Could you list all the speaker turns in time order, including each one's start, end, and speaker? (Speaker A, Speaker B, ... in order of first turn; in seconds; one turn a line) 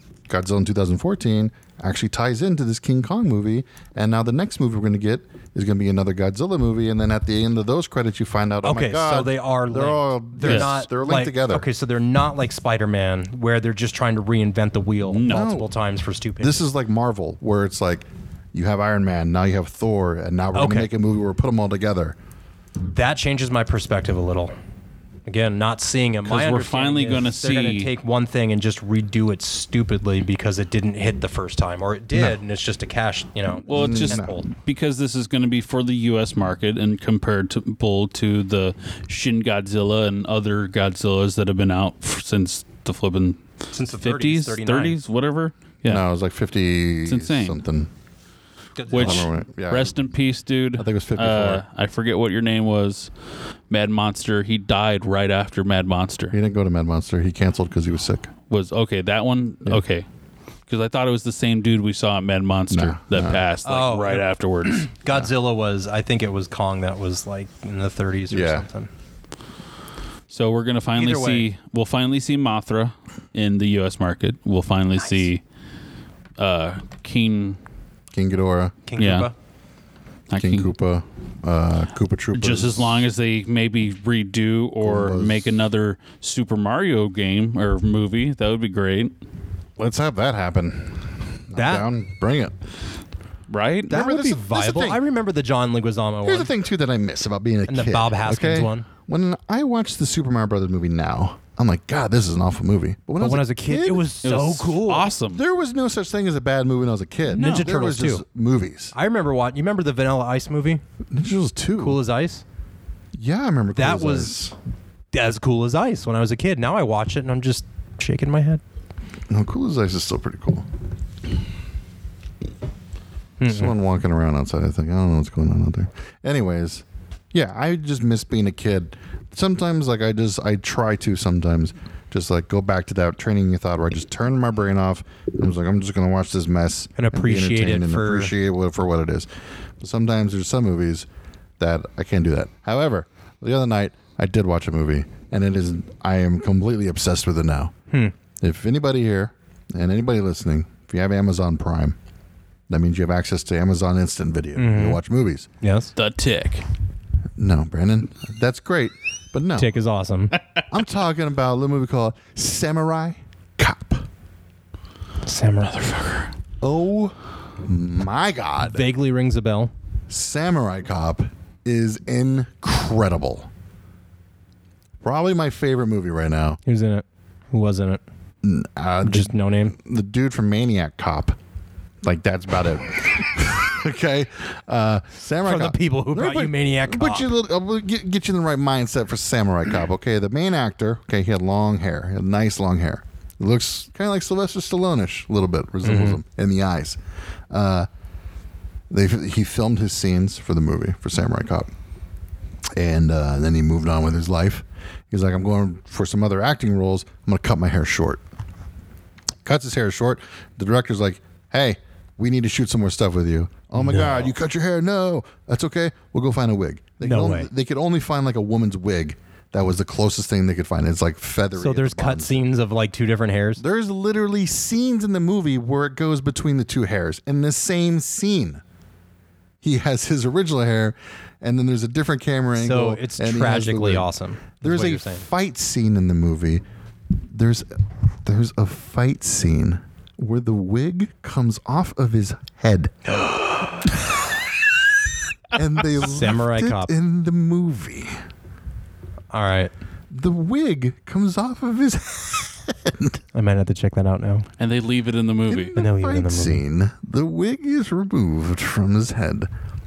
Speaker A: 0.3-11.7
Speaker B: 8.6-16.6
Speaker C: 10.4-10.7
Speaker C: 15.1-15.5
Speaker A: 15.3-15.7
Speaker A: 16.4-22.2
Speaker B: 20.5-20.9
Speaker B: 22.9-24.5
Speaker B: 25.3-34.5
Speaker C: 26.2-27.9
Speaker C: 33.7-46.0
Speaker A: 33.7-34.4
Speaker B: 43.7-45.0
Speaker A: 45.9-47.9
Speaker C: 47.0-47.6
Speaker B: 48.8-49.3
Speaker C: 48.9-53.1
Speaker A: 48.9-50.0
Speaker A: 50.8-51.6
Speaker C: 53.7-56.4
Speaker A: 56.3-58.3
Speaker C: 58.5-60.0
Speaker C: 60.7-64.9
Speaker A: 62.7-63.4
Speaker B: 63.6-68.9
Speaker A: 68.3-68.7
Speaker C: 70.3-75.4
Speaker B: 71.0-71.5
Speaker C: 76.4-77.6
Speaker A: 78.1-78.8
Speaker B: 78.9-79.3
Speaker C: 79.0-79.3
Speaker C: 80.3-80.7
Speaker A: 80.4-83.0
Speaker C: 82.3-89.1
Speaker A: 84.8-85.5
Speaker A: 89.8-92.6
Speaker B: 91.5-91.9
Speaker C: 93.5-94.0
Speaker A: 93.9-95.0
Speaker B: 93.9-96.5
Speaker A: 96.2-104.2
Speaker B: 97.7-98.9
Speaker B: 103.2-105.1
Speaker C: 104.2-105.4
Speaker A: 105.3-108.9
Speaker B: 107.3-108.2
Speaker B: 108.9-110.8
Speaker A: 111.1-112.0
Speaker B: 111.8-112.4
Speaker A: 113.2-114.5
Speaker B: 113.8-114.4
Speaker B: 115.1-118.6
Speaker A: 119.3-120.7
Speaker B: 123.4-123.7
Speaker A: 123.5-139.3
Speaker B: 137.0-138.3
Speaker A: 139.8-141.1
Speaker A: 141.6-147.7
Speaker A: 148.4-152.0
Speaker A: 152.7-155.5
Speaker B: 154.6-155.0
Speaker B: 155.6-155.9
Speaker C: 156.0-156.7
Speaker A: 157.4-159.7
Speaker B: 159.6-160.4
Speaker A: 160.7-164.1
Speaker B: 165.2-166.3
Speaker A: 166.6-168.8
Speaker B: 168.7-169.7
Speaker A: 170.1-173.5
Speaker A: 175.0-176.6
Speaker B: 176.7-178.0
Speaker A: 178.4-181.4
Speaker B: 179.0-179.8
Speaker A: 182.0-197.0
Speaker B: 185.4-187.3
Speaker B: 195.8-196.2
Speaker A: 197.5-197.9
Speaker A: 198.9-201.7
Speaker A: 202.8-208.2
Speaker A: 209.4-222.4
Speaker B: 213.8-214.3
Speaker B: 217.0-217.5
Speaker B: 221.6-223.6
Speaker A: 223.6-228.6
Speaker A: 229.6-234.1
Speaker B: 232.6-235.3
Speaker A: 234.6-236.6
Speaker A: 237.3-243.1
Speaker B: 243.1-244.0
Speaker A: 245.5-248.2
Speaker B: 246.0-246.9
Speaker B: 249.3-249.7
Speaker A: 250.1-253.2
Speaker B: 253.3-254.5
Speaker C: 254.6-255.7
Speaker A: 255.5-259.5
Speaker B: 255.8-256.6